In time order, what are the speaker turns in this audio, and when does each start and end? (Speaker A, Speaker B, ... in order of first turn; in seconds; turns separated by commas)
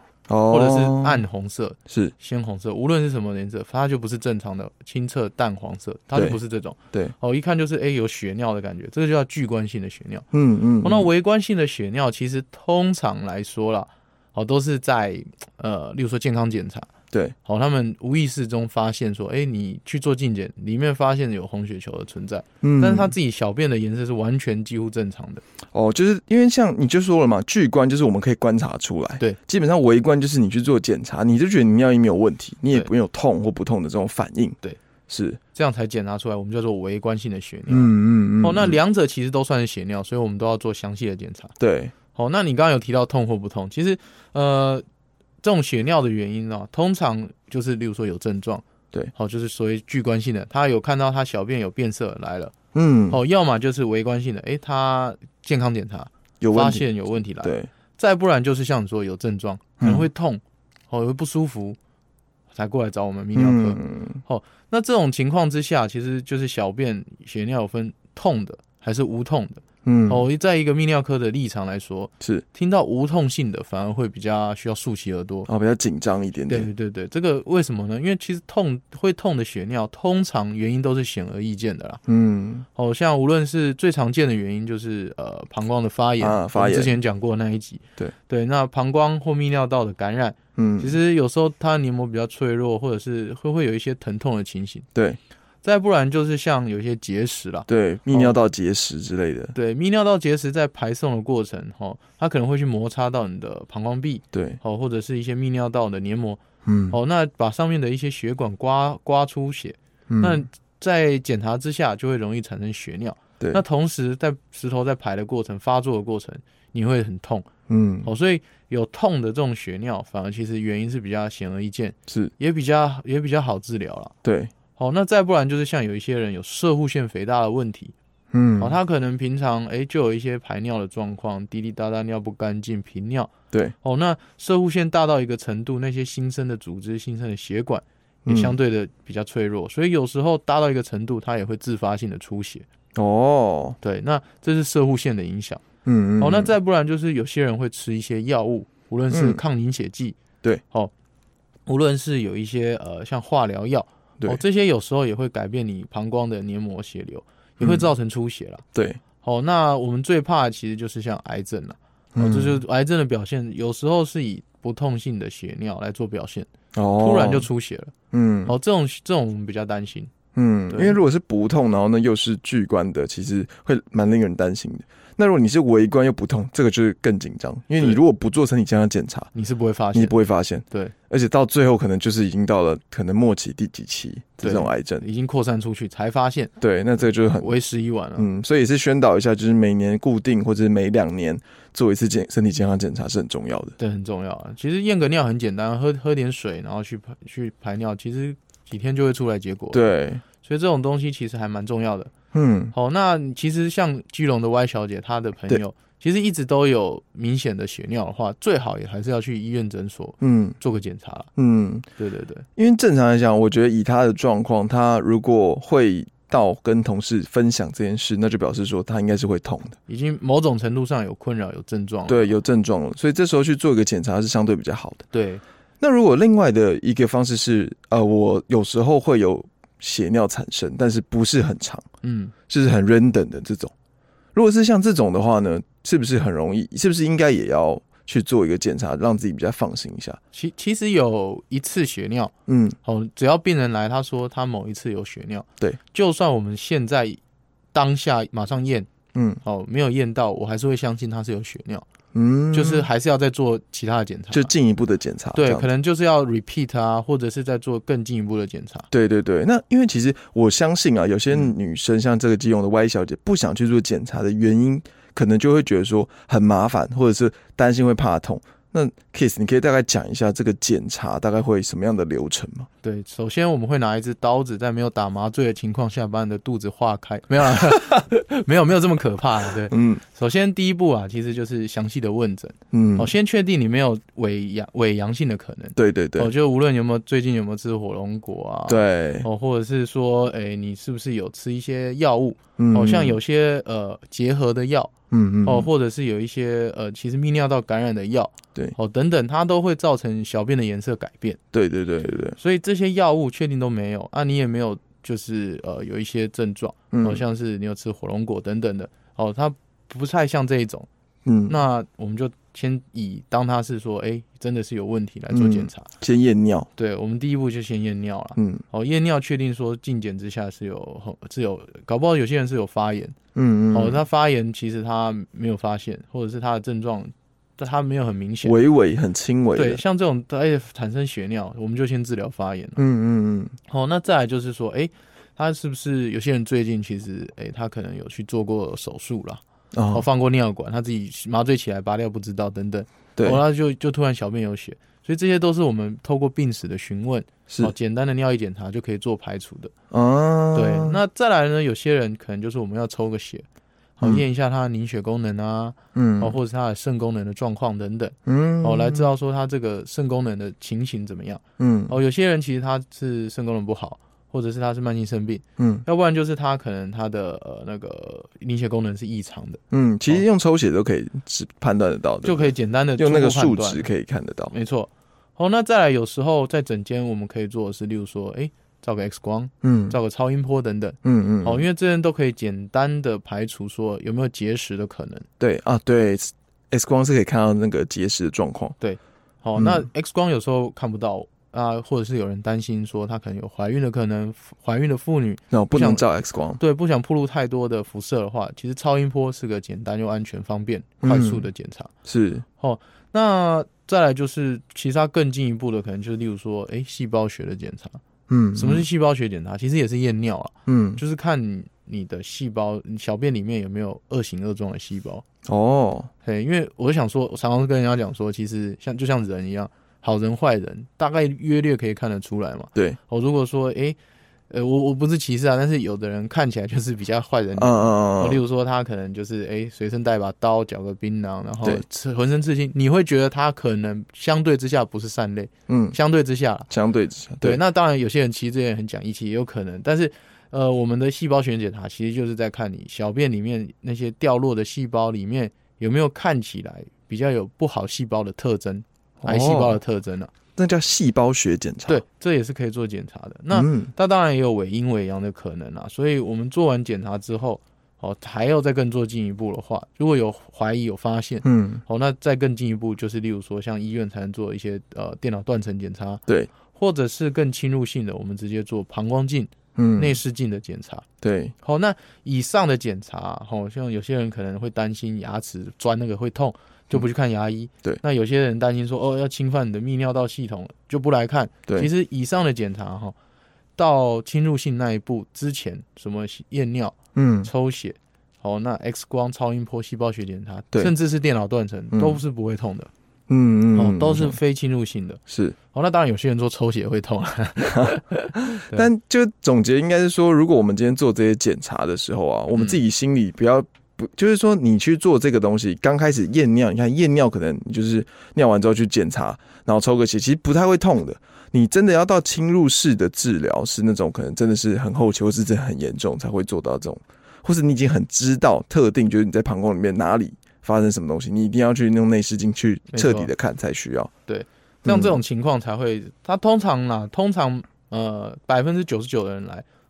Speaker A: 0.3-1.2, Speaker B: 0.5-10.3, Speaker A: 1.9-2.1, Speaker A: 10.3-11.1, Speaker B: 10.8-16.9, Speaker B: 17.4-25.4, Speaker A: 22.6-23.1, Speaker A: 25.7-34.6, Speaker A: 35.1-35.4, Speaker B: 35.5-41.5, Speaker A: 37.7-38.8, Speaker A: 41.6-41.9, Speaker B: 42.1-44.9, Speaker B: 45.4-52.5, Speaker A: 52.7-53.2, Speaker B: 53.1-61.8, Speaker A: 56.4-56.9, Speaker A: 57.4-57.7, Speaker A: 59.8-60.1, Speaker B: 62.5-75.5, Speaker A: 63.4-64.2, Speaker A: 69.8-70.2, Speaker A: 75.5-76.7, Speaker B: 76.5-82.0, Speaker A: 82.1-82.7, Speaker B: 82.8-94.9, Speaker A: 86.2-87.0, Speaker A: 90.6-91.0, Speaker B: 95.6-98.3, Speaker A: 97.7-99.5, Speaker B: 99.5-117.5, Speaker A: 104.3-104.6, Speaker A: 106.7-107.0, Speaker A: 110.1-110.4, Speaker A: 117.7-118.1, Speaker B: 118.0-124.1, Speaker A: 122.1-122.3, Speaker A: 124.2-124.5, Speaker B: 124.8-127.9, Speaker A: 128.3-128.8, Speaker B: 128.6-133.3, Speaker B: 133.8-142.7, Speaker A: 138.3-138.5, Speaker A: 142.9-143.8, Speaker B: 143.8-145.6, Speaker A: 145.8-146.5, Speaker B: 146.2-150.2, Speaker A: 149.1-149.4, Speaker B: 151.7-158.6, Speaker A: 157.6-157.9, Speaker A: 158.7-159.0, Speaker B: 159.2-166.5, Speaker A: 162.2-162.6, Speaker A: 166.7-167.5, Speaker B: 167.0-167.9, Speaker A: 168.1-168.6, Speaker B: 168.5-170.1, Speaker A: 170.3-179.3, Speaker B: 170.7-171.0, Speaker B: 179.3-180.2, Speaker A: 179.9-185.0, Speaker B: 184.4-186.5, Speaker A: 186.6-187.5, Speaker B: 187.4-188.3, Speaker A: 188.2-193.8, Speaker B: 193.8-202.1, Speaker A: 199.7-200.2, Speaker A: 202.3-202.7, Speaker B: 202.7-211.3, Speaker A: 210.2-210.6, Speaker A: 211.4-211.9, Speaker B: 212.0-212.4, Speaker A: 212.6-219.8, Speaker B: 219.9-222.3, Speaker A: 222.1-225.1, Speaker B: 225.1-225.4, Speaker A: 225.8-231.9, Speaker B: 232.0-232.3, Speaker A: 232.5-233.7, Speaker A: 234.3-240.2, Speaker B: 240.3-242.3, Speaker A: 242.5-242.8, Speaker B: 242.8-247.2, Speaker B: 247.7-248.9, Speaker A: 249.2-249.4, Speaker B: 249.4-251.9, Speaker A: 252.1-252.9, Speaker B: 252.5-254.5, Speaker A: 254.3-255.7, Speaker B: 255.3-258.9, Speaker A: 258.9-272.7, Speaker B: 272.8-301.4, Speaker A: 279.7-280.0, Speaker A: 282.7-283.1, Speaker A: 285.8-286.3, Speaker A: 288.7-289.3, Speaker A: 292.6-293.2, Speaker A: 295.1-295.7, Speaker A: 301.5-302.4, Speaker B: 302.4-310.9, Speaker A: 306.9-307.2, Speaker A: 311.2-311.6, Speaker B: 311.5-315.9, Speaker A: 315.3-316.7, Speaker B: 316.8-323.2, Speaker A: 318.4-318.6, Speaker A: 323.4-324.0, Speaker B: 323.7-328.6, Speaker A: 328.4-329.8, Speaker B: 329.6-332.8, Speaker A: 332.8-333.6, Speaker B: 333.7-349.7, Speaker A: 339.7-340.1, Speaker A: 343.2-343.4, Speaker A: 347.5-347.7, Speaker A: 349.9-351.0, Speaker B: 350.5-353.4, Speaker B: 354.0-370.2, Speaker A: 355.9-356.4, Speaker A: 358.3-359.1, Speaker A: 361.6-361.9, Speaker A: 365.6-365.8, Speaker A: 369.7-374.5, Speaker B: 372.2-373.9, Speaker B: 374.5-385.3, Speaker A: 379.6-380.0, Speaker A: 381.0-381.6, Speaker A: 385.4-388.8, Speaker B: 388.8-396.0, Speaker A: 389.6-389.8, Speaker A: 395.5-396.6, Speaker B: 396.6-401.9, Speaker A: 401.0-401.5, Speaker A: 402.1-402.4, Speaker B: 402.6-408.0, Speaker A: 408.3-408.9, Speaker B: 408.6-415.2, Speaker A: 410.7-411.0, Speaker A: 415.5-416.1, Speaker B: 416.2-424.0, Speaker B: 424.5-436.7, Speaker A: 427.6-428.4, Speaker A: 435.7-436.0, Speaker A: 436.7-437.6, Speaker B: 437.4-450.3, Speaker A: 449.2-449.8, Speaker A: 450.6-452.0, Speaker B: 451.9-471.1, Speaker A: 453.5-453.9, Speaker A: 461.4-461.8, Speaker A: 469.8-470.2, Speaker A: 471.2-471.5, Speaker B: 471.6-483.1, Speaker B: 483.8-492.9, Speaker A: 487.1-487.5, Speaker A: 491.9-492.2, Speaker A: 493.3-494.4, Speaker B: 493.8-495.2, Speaker A: 495.3-495.6, Speaker B: 495.7-498.9, Speaker A: 497.7-524.1, Speaker B: 522.9-523.3, Speaker B: 524.3-529.6, Speaker A: 524.9-525.2